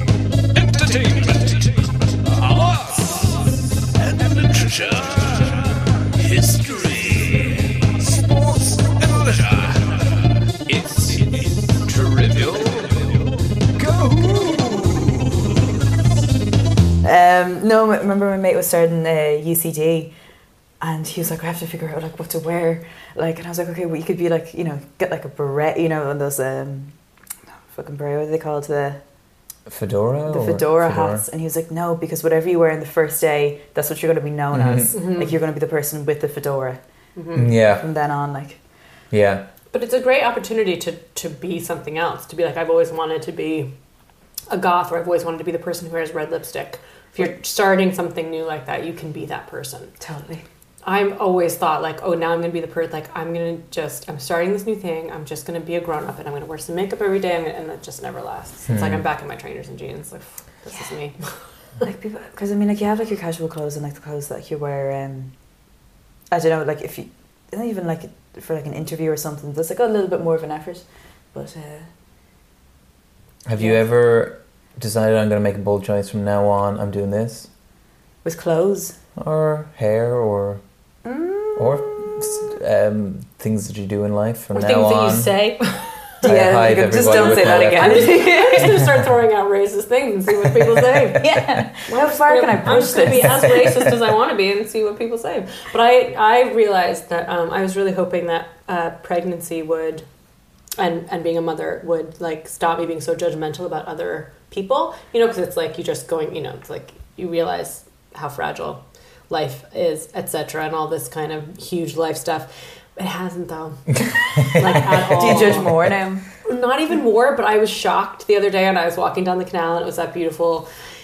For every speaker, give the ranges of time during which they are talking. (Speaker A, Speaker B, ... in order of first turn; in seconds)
Speaker A: 4.2-5.5, 6.1-7.8, 9.0-9.8, 10.7-13.0, 13.9-14.9, 29.7-31.2, 34.5-34.9, 37.3-37.9, 39.1-39.5, 58.7-59.0, 73.5-77.5, 79.2-80.6, 81.6-85.3, 86.2-88.9, 114.8-115.8
Speaker B: 17.0-20.1, 20.8-26.9, 27.7-29.0, 30.3-36.8, 37.4-38.6, 50.0-50.4, 61.8-65.3, 66.3-71.9, 78.2-79.0, 81.0-82.4, 86.2-88.8, 91.1-93.9, 115.0-116.2
Speaker C: 34.9-35.4, 37.2-37.5, 39.7-43.7, 44.5-49.9, 50.8-61.3, 84.5-86.2, 87.0-100.1, 100.8-115.8, 116.4-120.7